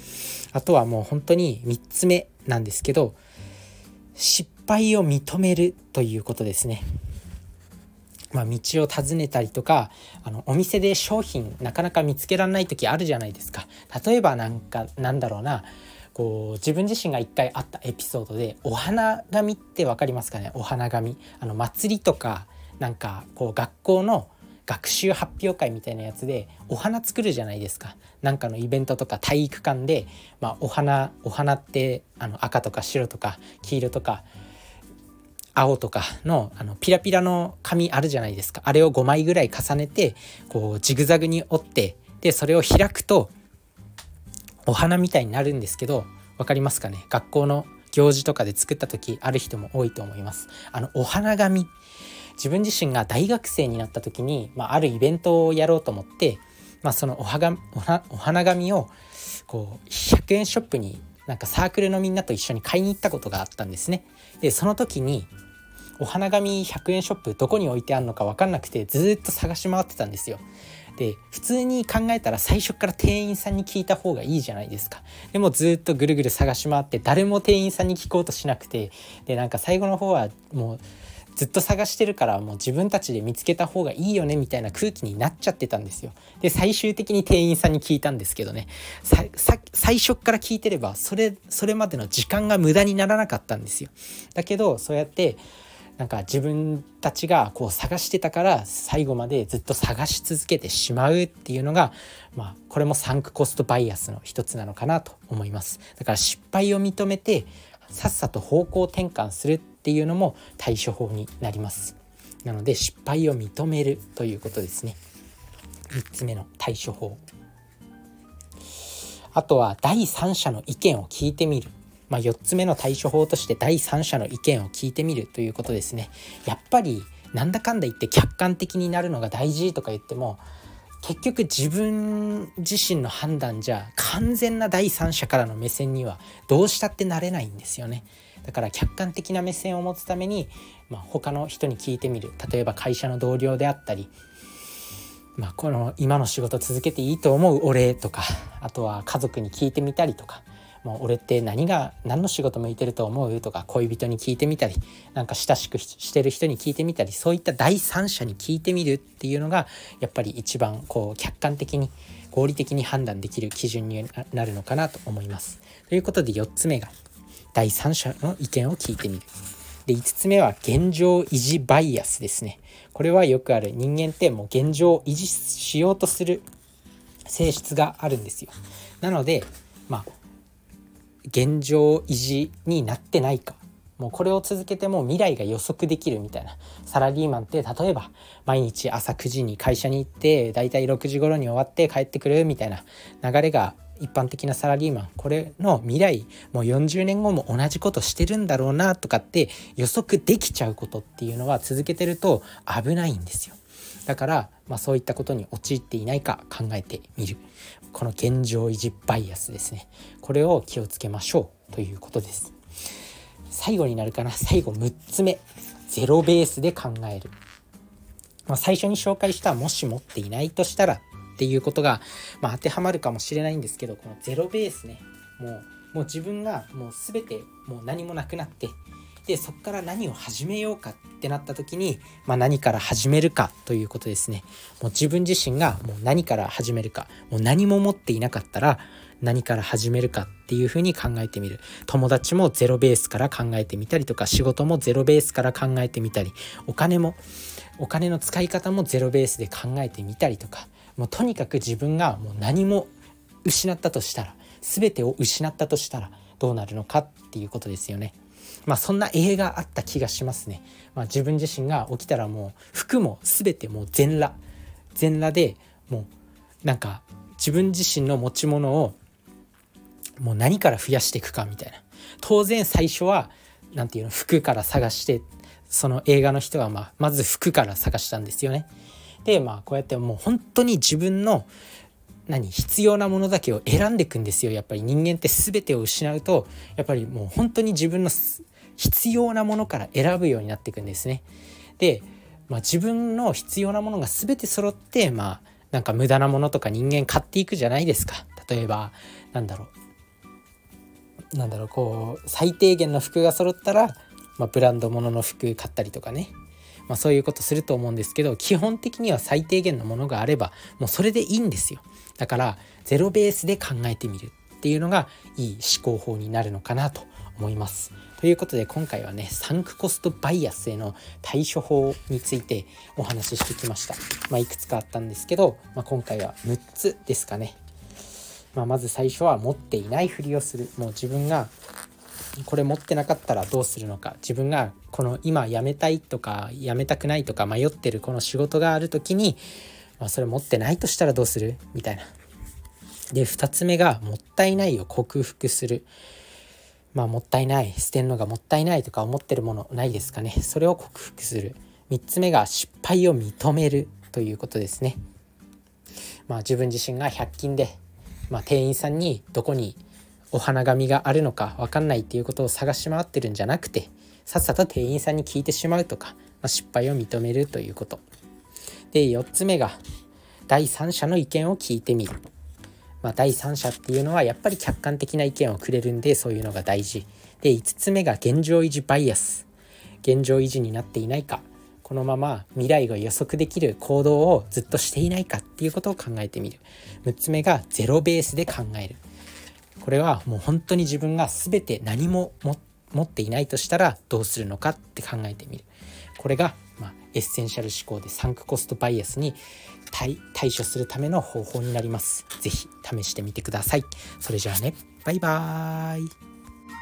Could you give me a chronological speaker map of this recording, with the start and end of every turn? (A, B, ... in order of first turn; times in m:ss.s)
0:00.5-0:03.2 A
0:04.2-0:06.9 A
0:08.3-0:34.3 A
0:35.6-0:43.3 A
0:44.6-0:51.7 A
0:52.4-0:58.9 A
0:59.5-1:05.3 A
1:06.0-1:10.4 A
1:11.0-1:20.8 A
1:21.4-1:35.4 A
1:36.0-1:55.0 A
1:55.9-1:57.2 A
1:59.3-2:10.4 A
2:11.0-2:24.1 A
2:25.4-2:46.9 A
2:47.5-2:49.3 A
2:49.9-2:56.5 A
2:57.3-3:00.1 A
3:01.3-3:32.5 A
3:33.5-3:37.4 A
3:38.5-3:48.8 A
3:49.3-4:07.2 A
4:07.8-4:12.9 A
4:13.4-4:18.2 A
4:18.7-4:24.4 A
4:25.0-4:26.1 A
4:26.6-4:29.0 A
4:30.2-4:38.7 A
4:39.2-4:41.5 A
4:42.3-4:51.2 A
4:51.8-4:59.7 A
5:01.3-5:06.3 A
5:06.9-5:27.6 A
5:28.6-5:31.5 A
5:32.4-5:39.4 A
5:40.0-5:42.1 A
5:43.1-5:45.9 A
5:46.9-5:55.0 A
5:56.3-5:57.8 A
5:58.3-5:59.8 A
6:00.3-6:08.0 A
6:08.9-6:09.8 A
6:10.5-6:12.2 A
6:13.0-6:19.5 A
6:20.0-6:29.0 A
6:29.8-6:35.7 A
6:36.2-6:39.4 A
6:39.9-6:46.1 A